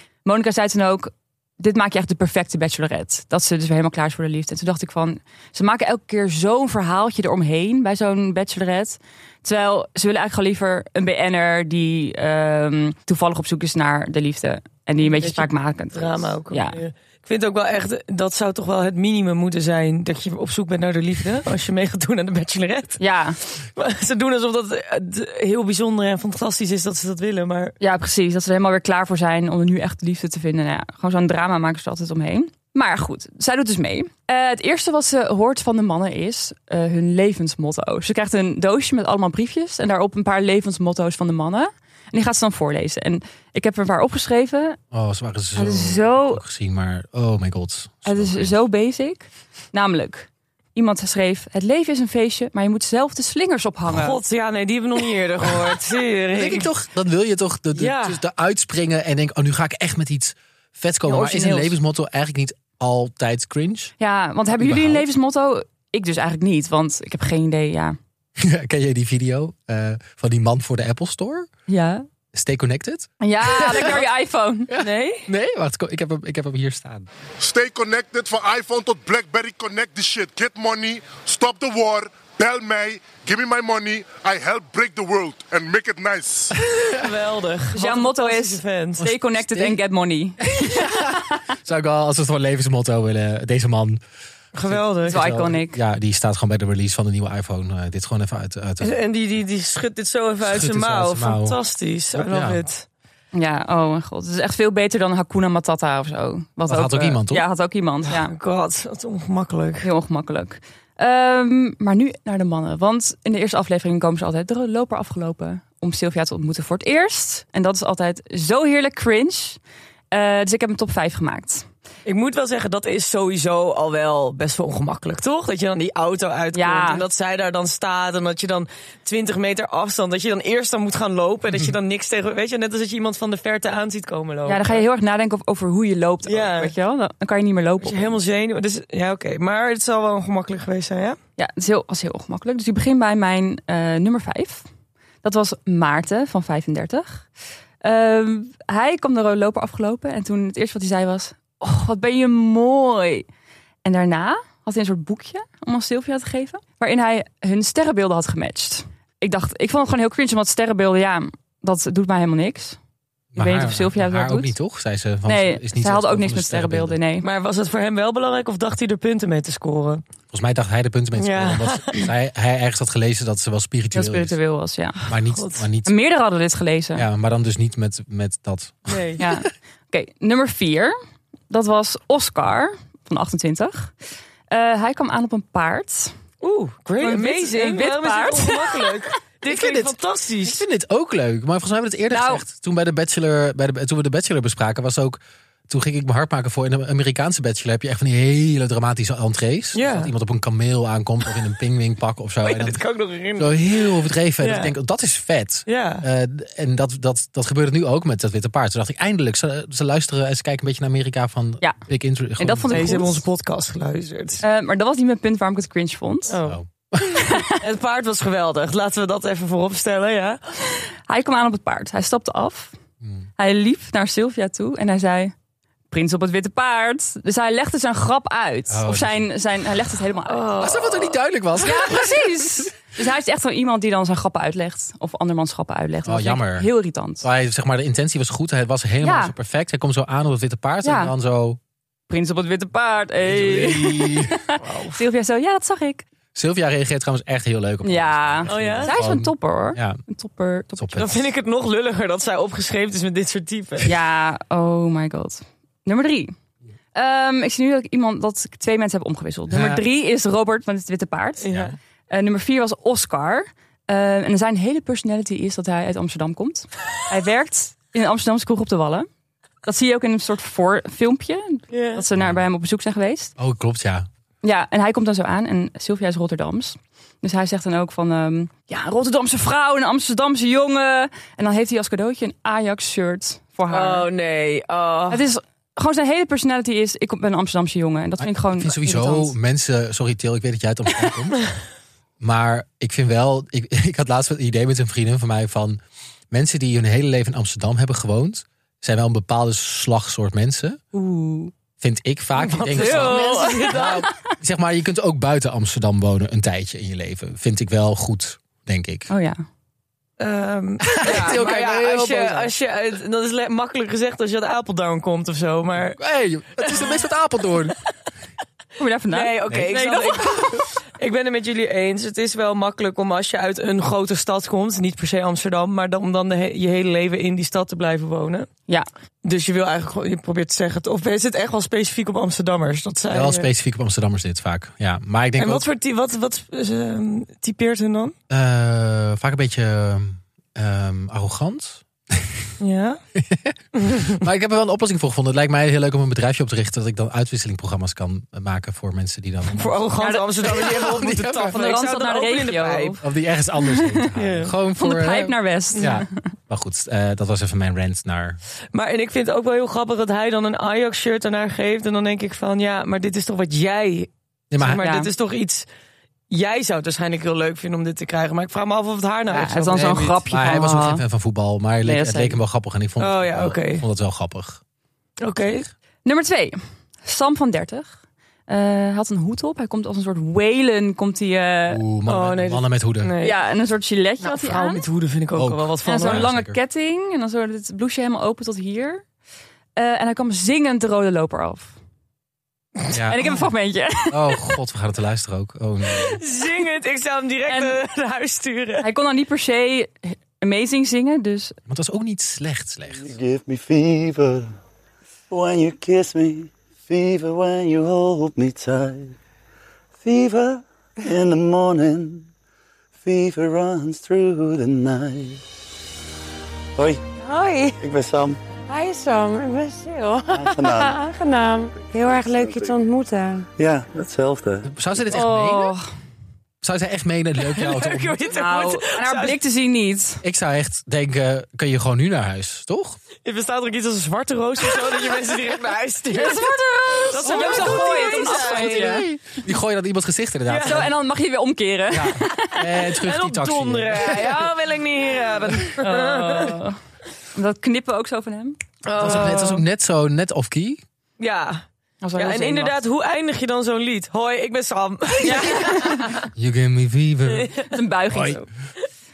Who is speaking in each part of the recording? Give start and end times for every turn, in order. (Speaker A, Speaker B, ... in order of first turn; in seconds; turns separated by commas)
Speaker A: 0.2-16.8, Speaker B: 15.0-23.0, Speaker A: 23.0-23.4, Speaker B: 23.6-27.8, Speaker A: 27.8-44.8, Speaker C: 44.9-48.5, Speaker A: 45.5-46.4, Speaker A: 48.0-54.2, Speaker B: 53.9-56.7, Speaker C: 56.3-63.9, Speaker B: 57.7-58.2, Speaker A: 61.0-61.8, Speaker A: 64.0-68.0, Speaker C: 64.6-65.0, Speaker C: 68.4-71.5, Speaker A: 71.7-72.0, Speaker C: 72.3-74.1, Speaker A: 73.2-74.7, Speaker C: 74.7-77.1, Speaker B: 74.8-75.3, Speaker D: 77.4-86.5, Speaker B: 86.8-89.0, Speaker A: 87.7-91.1, Speaker C: 89.0-89.8, Speaker C: 90.4-94.0, Speaker B: 94.5-95.2, Speaker C: 94.6-99.0, Speaker A: 95.1-95.8, Speaker B: 98.8-102.8, Speaker C: 100.4-101.6, Speaker C: 102.1-102.6, Speaker A: 103.3-108.3, Speaker C: 106.7-107.5, Speaker B: 108.1-109.9, Speaker A: 109.8-119.6, Speaker A: 120.1-121.7, Speaker B: 122.0-134.8, Speaker A: 126.5-127.0, Speaker A: 134.4-138.2, Speaker B: 136.2-136.7, Speaker B: 137.8-141.2, Speaker A: 141.4-144.7, Speaker A: 145.2-147.3, Speaker A: 147.8-153.2, Speaker A: 153.8-162.8, Speaker C: 163.3-167.0, Speaker A: 163.4-164.5, Speaker A: 165.2-167.3, Speaker B: 167.2-170.0, Speaker C: 170.3-174.4, Speaker B: 171.2-172.1, Speaker A: 173.9-175.0, Speaker C: 175.1-175.9, Speaker B: 175.3-175.6, Speaker A: 175.8-177.1, Speaker C: 176.9-179.4, Speaker B: 178.9-179.2, Speaker A: 179.2-180.9, Speaker A: 181.5-183.9, Speaker A: 184.5-186.1, Speaker B: 186.4-190.6, Speaker A: 187.0-188.9, Speaker C: 189.4-202.8, Speaker A: 192.1-192.4, Speaker B: 199.7-200.1, Speaker B: 202.4-204.7, Speaker C: 203.3-213.0, Speaker B: 205.7-206.0, Speaker A: 212.4-213.2, Speaker B: 212.7-214.4, Speaker A: 214.4-216.4, Speaker B: 216.3-216.6, Speaker C: 216.4-217.2, Speaker A: 217.1-217.6, Speaker B: 217.6-220.4, Speaker A: 221.1-222.7, Speaker C: 223.0-223.3, Speaker A: 223.4-225.3, Speaker A: 225.9-230.7, Speaker C: 228.7-229.3, Speaker B: 230.3-231.2, Speaker C: 230.6-232.2, Speaker A: 231.6-237.2, Speaker C: 236.0-236.7, Speaker C: 237.2-241.6, Speaker A: 239.0-239.3, Speaker A: 240.8-241.1, Speaker A: 242.1-246.0, Speaker C: 243.2-244.4, Speaker B: 244.6-245.0, Speaker C: 246.3-250.0, Speaker A: 247.8-251.1, Speaker B: 248.5-249.0, Speaker C: 250.8-251.2, Speaker B: 250.9-253.9, Speaker A: 253.8-256.3, Speaker A: 256.9-261.5, Speaker C: 259.5-259.8, Speaker B: 261.4-261.7, Speaker C: 261.5-261.8, Speaker A: 262.1-269.1, Speaker A: 269.6-273.3, Speaker B: 271.7-272.0, Speaker C: 272.1-272.4, Speaker C: 273.4-274.1, Speaker A: 274.4-284.1, Speaker B: 283.7-285.2, Speaker A: 285.1-289.3, Speaker C: 288.2-291.4, Speaker C: 292.2-300.8, Speaker A: 300.9-301.5, Speaker C: 301.8-309.1, Speaker B: 302.4-304.1, Speaker A: 302.7-303.8, Speaker A: 309.1-309.4, Speaker B: 310.2-316.0, Speaker C: 310.9-312.5, Speaker C: 315.9-317.8, Speaker A: 318.8-320.5, Speaker B: 319.1-328.5, Speaker C: 319.5-319.8, Speaker B: 329.2-333.5, Speaker C: 333.1-335.6, Speaker B: 335.4-338.1, Speaker C: 338.3-342.4, Speaker B: 342.6-343.0, Speaker C: 343.1-349.8, Speaker B: 343.8-344.2, Speaker B: 349.5-353.0, Speaker A: 350.0-351.0, Speaker C: 350.4-351.8, Speaker A: 351.5-353.0, Speaker C: 353.0-358.4, Speaker A: 353.6-354.1, Speaker B: 354.1-354.5, Speaker A: 354.8-356.1, Speaker B: 358.7-365.6, Speaker C: 364.5-364.8, Speaker A: 364.8-365.1, Speaker B: 366.3-370.2, Speaker A: 369.3-371.0, Speaker C: 369.7-374.6, Speaker A: 371.8-372.4, Speaker B: 373.0-373.8, Speaker B: 375.2-375.6, Speaker C: 375.4-375.7, Speaker A: 376.0-377.9, Speaker A: 378.5-381.8, Speaker C: 381.7-383.1, Speaker B: 382.1-383.3, Speaker A: 383.2-384.8, Speaker B: 384.2-386.3, Speaker C: 385.4-386.6, Speaker A: 385.9-389.0, Speaker A: 389.8-391.8, Speaker C: 392.9-393.4, Speaker A: 393.1-394.6, Speaker C: 394.1-396.2, Speaker B: 396.1-398.9, Speaker A: 397.5-397.8, Speaker A: 398.8-401.6, Speaker C: 401.7-403.1, Speaker E: 402.9-404.5, Speaker E: 405.3-409.1, Speaker E: 410.0-412.3, Speaker E: 412.9-415.4, Speaker E: 416.8-417.0, Speaker F: 417.2-417.8, Speaker E: 417.8-418.4, Speaker F: 418.7-423.5, Speaker E: 420.3-421.1, Speaker E: 421.8-422.7, Speaker E: 423.6-424.7, Speaker C: 424.6-425.7, Speaker A: 425.1-425.9, Speaker C: 426.6-428.2, Speaker B: 427.4-429.4, Speaker A: 428.3-430.2, Speaker C: 430.2-433.0, Speaker B: 433.2-439.0, Speaker A: 436.1-439.0, Speaker C: 437.3-440.9, Speaker B: 440.5-440.8, Speaker A: 440.6-442.6, Speaker C: 441.9-444.4, Speaker B: 442.4-446.6, Speaker A: 445.8-446.8, Speaker A: 447.3-448.6, Speaker B: 448.8-449.6, Speaker C: 449.0-450.8, Speaker B: 451.2-451.6, Speaker A: 452.0-452.8, Speaker B: 452.1-456.2, Speaker A: 455.2-456.1, Speaker C: 456.3-457.5, Speaker B: 457.2-457.7, Speaker A: 457.7-458.5, Speaker C: 458.1-458.4